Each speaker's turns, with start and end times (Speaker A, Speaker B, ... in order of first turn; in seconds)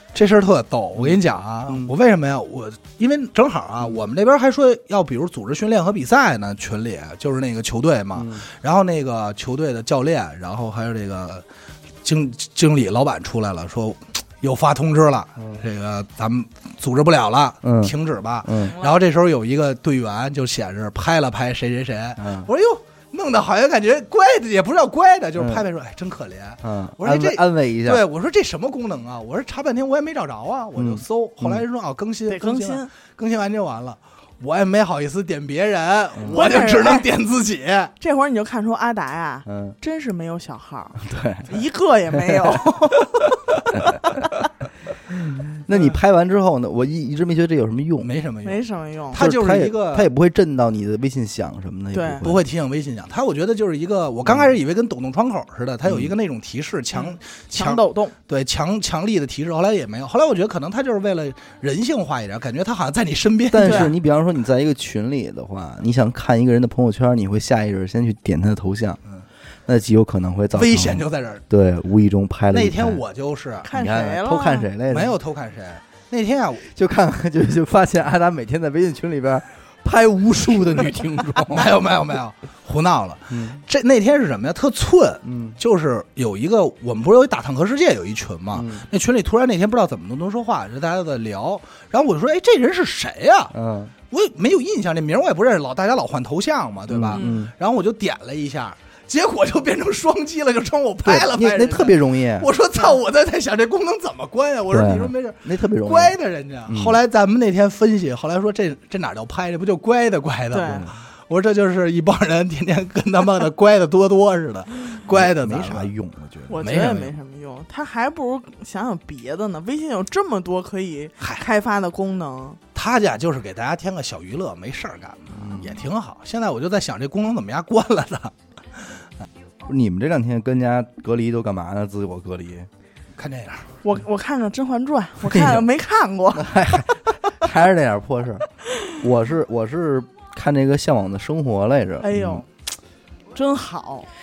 Speaker A: 0.1-11.4, 12.0-37.9, 48.0-50.1, 52.2-64.0, 70.5-71.5, 72.5-73.7, 74.9-76.7, 81.5-93.5, 94.1-115.9, 116.6-117.1, 121.2-121.5, 122.8-128.3, 133.2-133.7
Speaker B: 1.7-1.9, 8.2-8.4, 17.6-18.8, 22.2-22.5, 25.4-25.7, 26.6-28.1, 30.8-31.6, 39.5-39.8, 41.0-41.5, 42.3-42.6, 43.7-44.2, 45.1-48.1, 49.1-52.5, 54.3-54.5, 55.9-56.1, 63.5-69.0, 69.7-73.0, 73.7-75.2, 76.7-81.7, 83.3-83.6, 85.2-85.6, 88.5-88.9, 93.5-93.9, 96.9-97.5, 101.0-102.5, 104.7-106.2, 106.7-107.0, 110.7-110.9, 115.1-116.6, 125.3-125.8, 129.6-132.7, 135.2-135.7, 136.3-138.4, 139.0-142.4
Speaker C: 32.3-32.9, 36.3-37.1, 38.0-44.3, 48.5-49.2, 51.9-52.2, 56.9-58.1, 63.6-63.9, 73.6-74.7, 97.2-97.4, 110.5-110.9, 116.5-122.6, 133.8-136.8, 138.7-139.0, 142.0-142.5, 143.3-144.1